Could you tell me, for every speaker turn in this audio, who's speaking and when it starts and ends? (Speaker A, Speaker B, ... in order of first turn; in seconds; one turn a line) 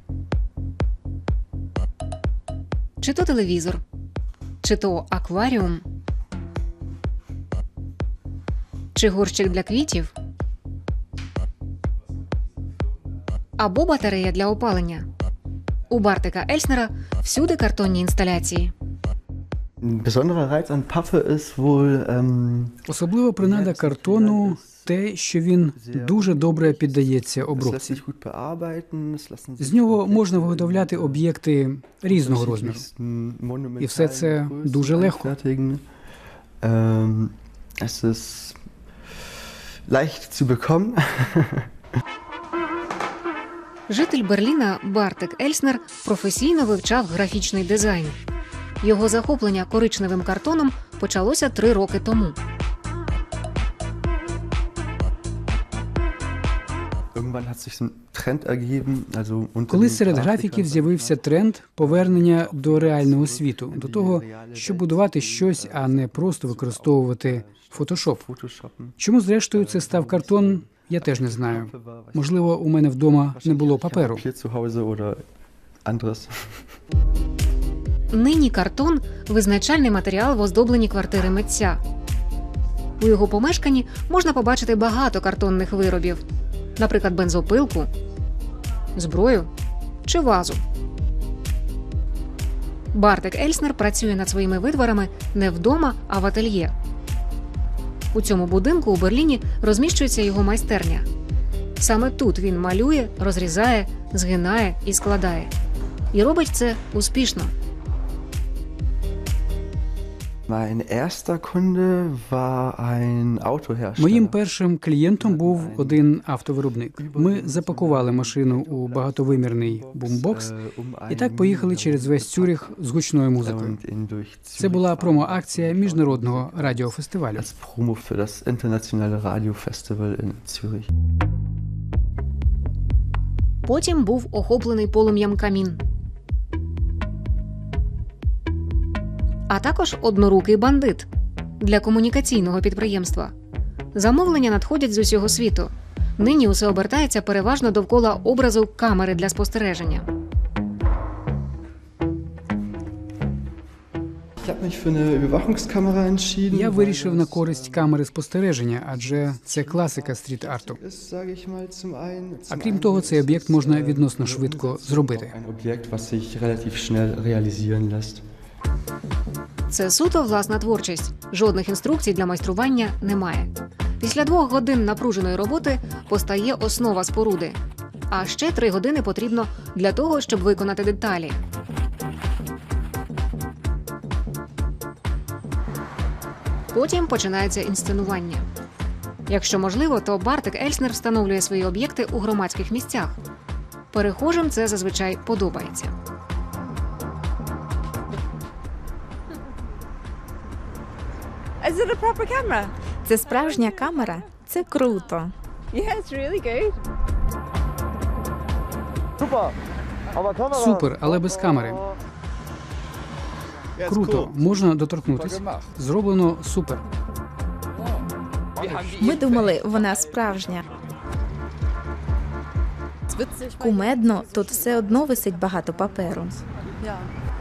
Speaker A: 3.0-3.8
Speaker A: 4.6-5.8
Speaker A: 8.9-10.1
Speaker A: 13.6-15.1
Speaker A: 15.9-18.7
Speaker B: 19.8-22.8
Speaker C: 22.9-28.0
Speaker B: 23.4-24.9
Speaker B: 25.7-31.3
Speaker C: 29.6-32.8
Speaker B: 32.0-35.8
Speaker C: 33.8-35.3
Speaker B: 36.6-38.6
Speaker B: 39.9-41.7
Speaker A: 43.9-48.2
Speaker A: 48.8-52.4
Speaker B: 57.1-61.2
Speaker C: 59.7-68.2
Speaker B: 61.8-69.0
Speaker C: 69.0-74.2
Speaker B: 69.5-72.5
Speaker B: 73.1-75.2
Speaker B: 75.8-76.6
Speaker A: 78.1-81.8
Speaker A: 83.0-86.2
Speaker A: 86.8-87.9
Speaker A: 88.9-89.5
Speaker A: 90.0-90.6
Speaker A: 92.9-96.7
Speaker A: 98.1-101.0
Speaker A: 101.8-105.5
Speaker A: 106.1-107.5
Speaker B: 110.5-114.4
Speaker C: 114.0-120.5
Speaker B: 115.2-116.0
Speaker B: 116.9-122.7
Speaker C: 121.1-123.8
Speaker B: 123.4-130.9
Speaker C: 124.6-127.5
Speaker A: 133.6-135.8
Speaker A: 139.5-141.1
Speaker A: 141.6-143.3
Speaker A: 143.9-150.1
Speaker B: 154.4-158.0
Speaker C: 156.5-160.8
Speaker B: 158.9-168.2
Speaker C: 162.5-165.3
Speaker A: 169.7-177.6
Speaker A: 178.1-181.4
Speaker A: 186.7-188.4
Speaker A: 189.3-193.1
Speaker A: 193.9-195.9
Speaker D: 201.6-202.7
Speaker E: 203.0-205.3
Speaker D: 205.7-206.8
Speaker C: 210.5-211.8
Speaker C: 213.8-216.8
Speaker E: 218.9-220.6
Speaker E: 223.1-226.4